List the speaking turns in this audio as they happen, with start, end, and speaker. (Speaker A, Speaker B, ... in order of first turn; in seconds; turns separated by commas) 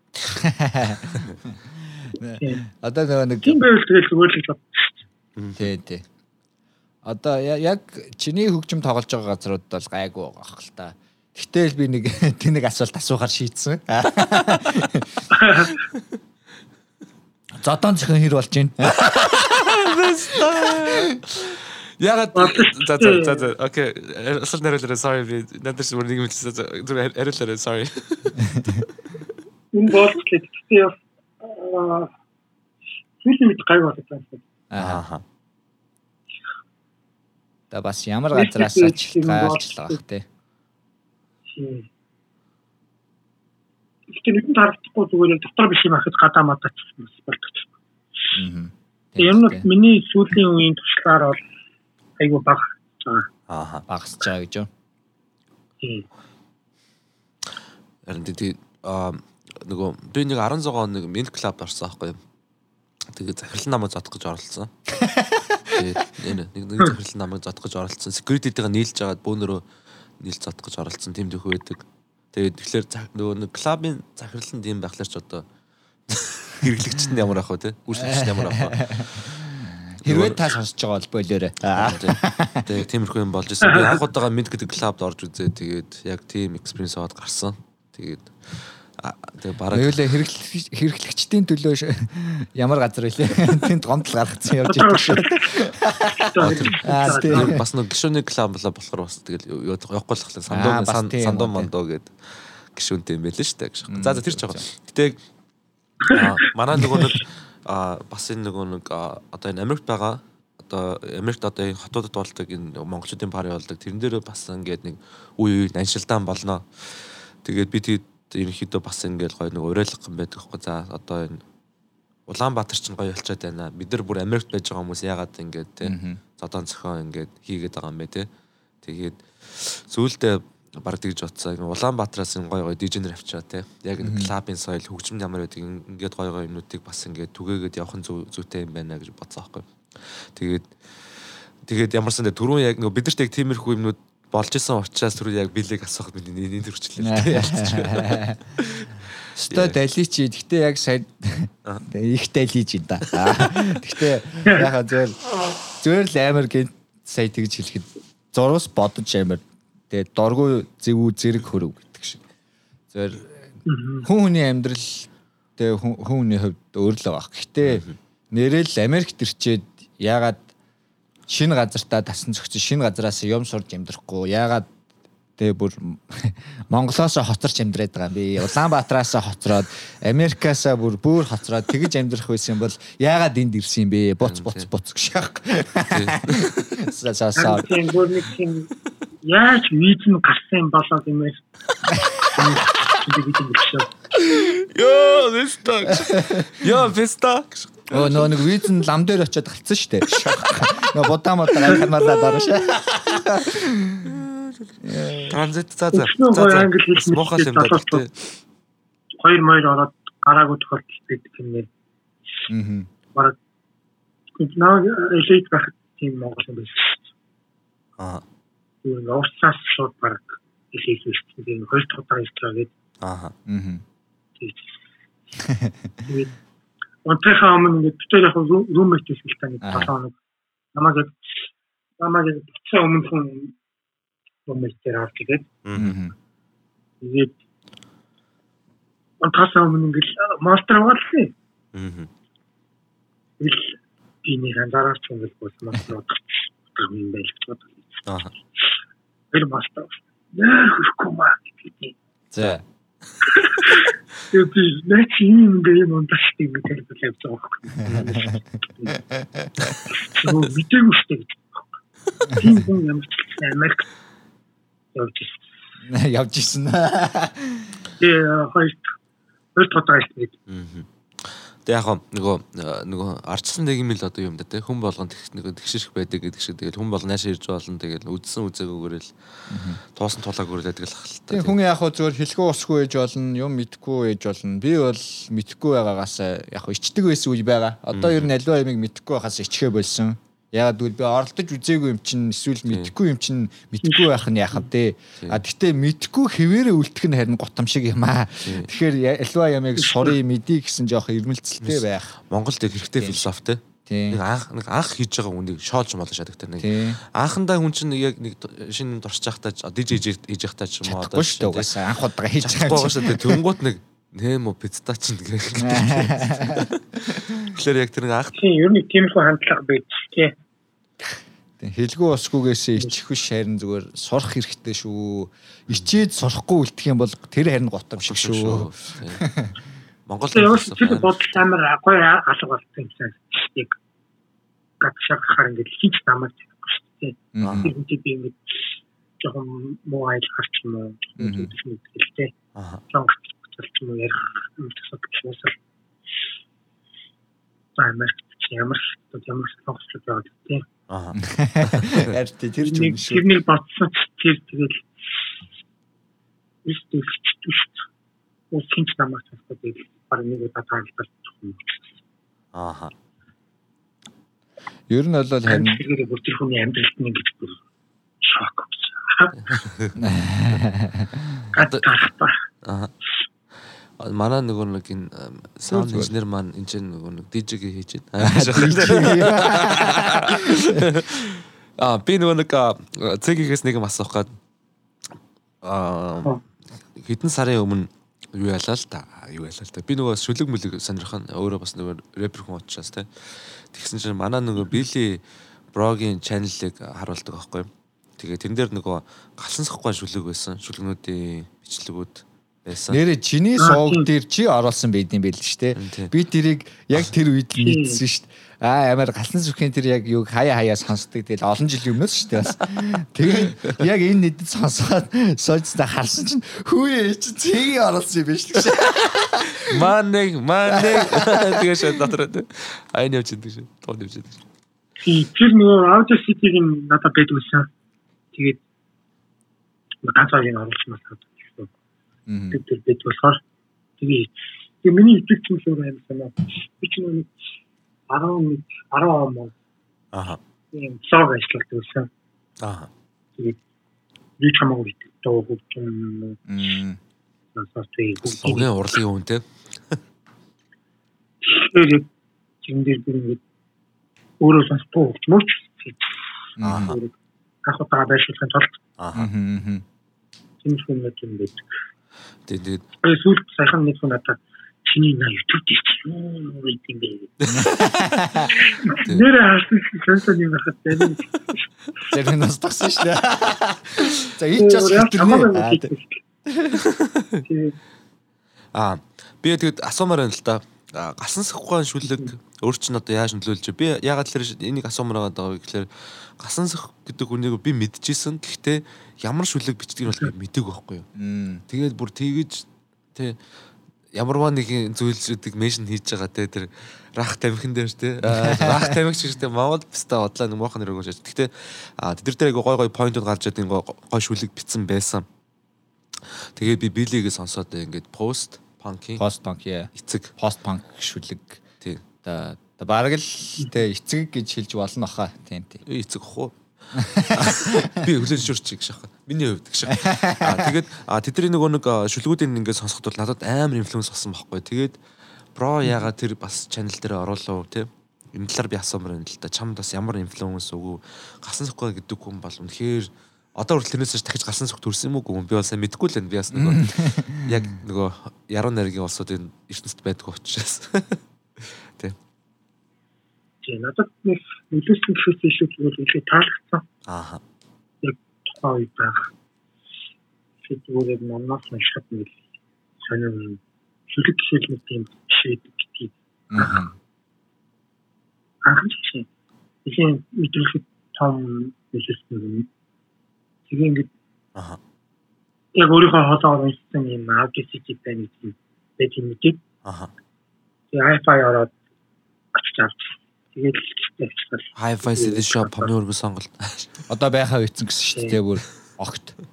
Speaker A: 0.3-3.6, Speaker B: 3.4-5.0, Speaker C: 5.4-5.6, Speaker A: 5.6-6.0, Speaker A: 7.0-15.2, Speaker B: 15.3-15.8, Speaker A: 17.6-21.2, Speaker C: 18.9-28.6, Speaker B: 22.3-23.5, Speaker A: 28.5-28.8, Speaker B: 29.7-32.1, Speaker B: 33.2-34.4, Speaker A: 34.7-35.0, Speaker C: 34.8-35.2, Speaker A: 37.7-40.2, Speaker B: 38.3-40.0, Speaker B: 41.5-41.9, Speaker B: 44.1-47.7, Speaker A: 48.3-49.7, Speaker B: 49.2-51.4, Speaker B: 52.2-53.3, Speaker C: 53.5-53.8, Speaker A: 53.9-54.7, Speaker B: 55.8-56.1, Speaker C: 58.1-62.2, Speaker C: 63.1-64.7, Speaker A: 64.9-65.9, Speaker C: 65.7-69.6, Speaker C: 70.2-75.4, Speaker C: 76.1-79.0, Speaker A: 78.0-82.7, Speaker C: 80.0-80.5, Speaker C: 81.7-90.1, Speaker A: 89.7-97.6, Speaker B: 94.6-95.6, Speaker B: 96.2-97.6, Speaker C: 96.4-105.2, Speaker A: 100.5-101.7, Speaker A: 103.9-104.6, Speaker C: 106.1-121.4, Speaker A: 106.9-107.2, Speaker C: 122.3-128.3, Speaker A: 125.8-126.2, Speaker C: 128.8-148.9, Speaker A: 134.0-134.3, Speaker A: 147.0-148.5, Speaker A: 149.4-162.2, Speaker C: 149.4-149.8, Speaker C: 153.1-153.6, Speaker B: 154.4-154.7, Speaker A: 162.9-163.4, Speaker B: 163.6-164.1, Speaker A: 164.0-170.4, Speaker C: 167.6-167.9, Speaker A: 171.3-174.7, Speaker A: 175.4-187.8, Speaker C: 184.2-184.7, Speaker C: 185.9-186.8, Speaker B: 187.3-188.7, Speaker B: 189.2-191.4, Speaker A: 192.0-192.6, Speaker B: 192.2-193.9, Speaker C: 194.2-198.5, Speaker A: 196.1-196.4, Speaker A: 197.9-204.2, Speaker C: 201.6-202.5, Speaker C: 204.0-208.1, Speaker A: 204.8-205.4, Speaker B: 205.9-208.0, Speaker B: 209.1-211.7, Speaker A: 212.5-212.9, Speaker B: 214.4-217.1, Speaker C: 218.0-218.2, Speaker B: 218.8-222.7, Speaker C: 223.0-223.3, Speaker A: 223.5-223.8, Speaker B: 224.4-224.8, Speaker A: 225.4-225.9, Speaker B: 226.0-226.4, Speaker B: 227.0-230.2, Speaker A: 229.6-229.9, Speaker B: 230.7-233.5, Speaker B: 234.4-235.5, Speaker C: 235.6-235.9, Speaker A: 235.7-236.1, Speaker B: 237.0-237.4, Speaker B: 239.2-241.3, Speaker C: 241.7-242.1, Speaker B: 243.4-248.1, Speaker B: 249.3-251.9, Speaker A: 252.3-252.6, Speaker B: 253.2-259.0, Speaker A: 257.9-258.3, Speaker A: 259.0-259.7, Speaker B: 259.9-263.9, Speaker A: 262.3-262.6, Speaker B: 264.9-265.5, Speaker A: 265.9-267.8, Speaker B: 268.0-269.0, Speaker B: 269.5-270.4, Speaker C: 270.5-279.1, Speaker A: 279.5-279.8, Speaker C: 279.9-281.6, Speaker A: 281.3-302.1, Speaker C: 287.9-288.3, Speaker B: 299.8-300.1, Speaker C: 301.6-311.7, Speaker A: 303.9-304.2, Speaker A: 306.6-307.0, Speaker A: 310.8-313.4, Speaker C: 312.4-318.4, Speaker A: 315.6-317.5, Speaker B: 318.3-320.4, Speaker A: 321.6-329.5, Speaker C: 328.0-329.3, Speaker C: 330.1-331.4, Speaker B: 330.3-333.8, Speaker B: 334.8-342.3, Speaker A: 337.3-337.7, Speaker C: 337.4-337.7, Speaker A: 341.2-341.5, Speaker C: 342.5-342.8, Speaker B: 342.9-345.6, Speaker B: 347.8-350.7, Speaker C: 350.9-352.1, Speaker A: 351.1-353.2, Speaker B: 352.6-355.2, Speaker B: 356.6-357.9, Speaker B: 358.5-362.0, Speaker C: 362.5-362.9, Speaker A: 364.9-365.8, Speaker B: 365.5-367.6, Speaker B: 368.2-369.4, Speaker C: 369.5-369.9, Speaker A: 370.0-371.4, Speaker B: 371.5-372.4, Speaker C: 371.5-371.9, Speaker C: 372.6-372.9, Speaker C: 374.0-384.4, Speaker A: 375.7-376.1, Speaker A: 378.2-380.9, Speaker C: 385.6-386.4, Speaker C: 386.9-395.2, Speaker C: 395.7-403.0, Speaker A: 402.9-419.9, Speaker B: 403.6-404.1, Speaker C: 405.8-406.1, Speaker B: 407.6-408.0, Speaker C: 419.5-424.4, Speaker A: 420.7-422.0, Speaker B: 425.0-427.7, Speaker B: 428.3-428.6, Speaker B: 430.0-431.7, Speaker A: 432.3-432.6, Speaker B: 432.5-433.4, Speaker B: 434.0-437.3, Speaker B: 438.1-439.5, Speaker C: 440.1-440.4, Speaker B: 440.7-442.1, Speaker C: 442.6-442.9, Speaker B: 444.4-446.4, Speaker A: 446.5-447.0, Speaker B: 447.5-448.7, Speaker C: 448.2-450.0, Speaker B: 451.4-452.1, Speaker B: 452.6-453.4, Speaker B: 454.4-456.2, Speaker A: 456.6-457.0, Speaker C: 456.6-456.9, Speaker B: 456.8-457.1, Speaker B: 457.6-458.8, Speaker C: 459.0-459.3, Speaker A: 459.1-459.8, Speaker B: 460.6-461.6, Speaker C: 462.5-462.8, Speaker B: 463.0-467.6, Speaker C: 467.4-467.9, Speaker A: 467.5-468.6, Speaker B: 468.5-471.6, Speaker A: 472.1-475.9, Speaker B: 474.6-476.2, Speaker A: 476.5-476.8, Speaker C: 476.8-477.4, Speaker B: 477.4-477.8, Speaker C: 478.7-491.1, Speaker B: 482.0-482.3, Speaker A: 491.1-491.6, Speaker C: 491.7-493.4, Speaker C: 494.1-505.2, Speaker A: 498.2-499.0, Speaker C: 506.3-509.2, Speaker A: 509.2-511.6, Speaker C: 509.9-510.3, Speaker A: 512.2-515.8, Speaker C: 515.9-525.0, Speaker A: 516.9-517.8, Speaker A: 519.9-520.8, Speaker C: 525.5-542.1, Speaker A: 536.5-537.6, Speaker B: 543.6-546.8, Speaker C: 547.1-547.4, Speaker B: 548.0-549.3, Speaker B: 550.6-552.4, Speaker B: 553.0-556.8, Speaker A: 556.5-556.9, Speaker B: 558.6-559.3, Speaker B: 559.8-562.7, Speaker B: 563.7-564.1, Speaker B: 565.7-569.6, Speaker C: 569.8-570.1, Speaker B: 570.9-571.7, Speaker B: 572.5-575.9, Speaker C: 574.8-577.0, Speaker A: 577.1-579.3, Speaker B: 578.1-578.4